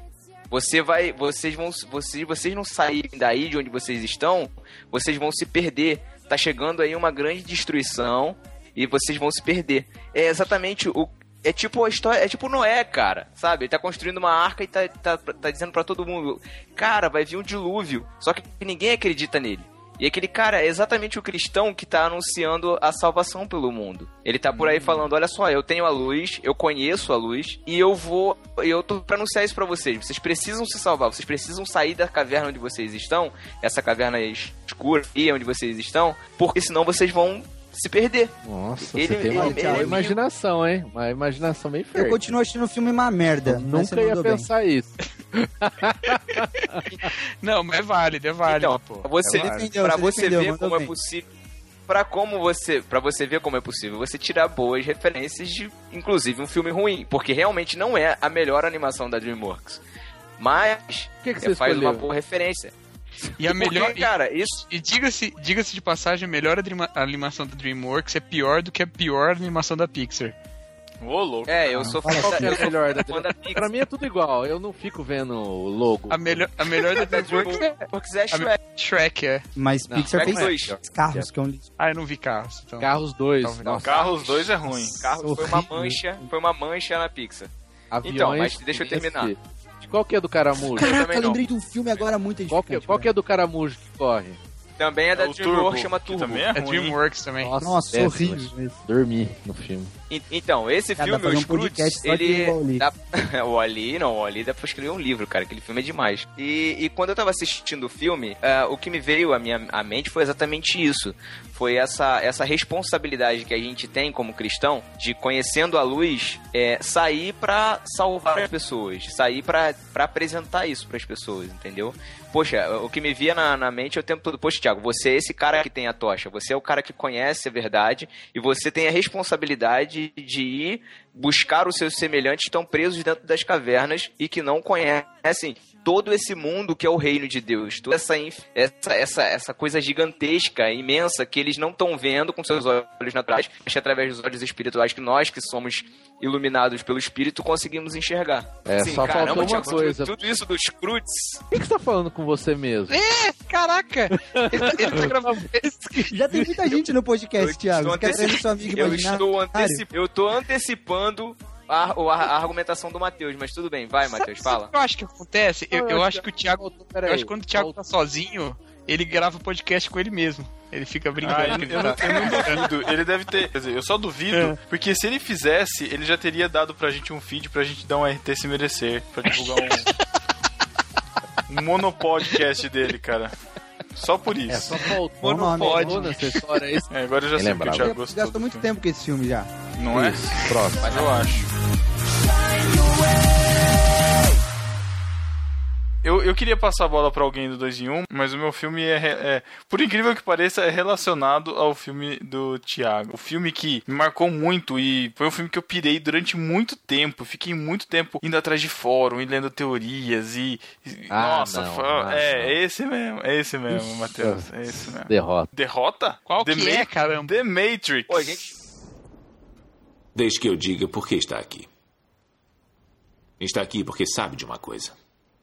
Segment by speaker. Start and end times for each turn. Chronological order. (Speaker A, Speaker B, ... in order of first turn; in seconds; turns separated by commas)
Speaker A: 0.5-40.2, Speaker B: 24.6-25.0, Speaker C: 38.4-42.2, Speaker D: 39.3-40.0, Speaker D: 41.9-44.5, Speaker C: 43.5-46.9, Speaker B: 47.0-49.7, Speaker A: 48.4-51.3, Speaker D: 49.2-50.9, Speaker A: 51.9-59.8, Speaker A: 60.4-62.7, Speaker C: 61.2-62.1, Speaker B: 63.4-70.3, Speaker A: 63.4-64.6, Speaker E: 71.0-72.0, Speaker A: 71.5-73.6, Speaker D: 72.0-72.7, Speaker C: 72.0-76.5, Speaker B: 76.1-77.8, Speaker A: 76.9-78.6, Speaker B: 78.3-79.4, Speaker D: 79.5-81.7, Speaker C: 79.9-81.3, Speaker A: 80.1-80.8, Speaker B: 81.8-84.0, Speaker C: 82.8-83.9, Speaker E: 83.8-85.0, Speaker A: 83.9-87.5, Speaker D: 85.1-86.0, Speaker C: 87.9-90.9, Speaker A: 88.0-89.3, Speaker D: 90.7-93.1, Speaker A: 90.8-91.4, Speaker C: 92.5-94.4, Speaker A: 94.8-96.5, Speaker E: 95.1-97.0, Speaker B: 96.5-97.5, Speaker C: 97.4-99.9, Speaker D: 97.6-98.7, Speaker A: 100.1-151.4, Speaker D: 101.0-102.8, Speaker C: 148.7-150.4, Speaker C: 151.5-153.0, Speaker B: 152.9-156.2, Speaker C: 154.1-155.4, Speaker D: 156.1-159.8, Speaker A: 157.4-164.7, Speaker B: 164.2-172.7, Speaker C: 165.7-167.8, Speaker E: 171.2-179.9, Speaker E: 181.5-183.3, Speaker E: 183.9-184.9, Speaker C: 184.5-187.9, Speaker B: 185.2-186.4, Speaker D: 185.2-186.1, Speaker E: 186.9-188.7, Speaker D: 187.7-189.5, Speaker E: 189.8-191.4, Speaker C: 189.9-191.1, Speaker E: 196.0-218.4, Speaker C: 211.1-212.6, Speaker C: 213.7-215.5, Speaker B: 216.3-217.3, Speaker A: 218.1-218.5, Speaker F: 220.1-221.7, Speaker F: 223.4-224.9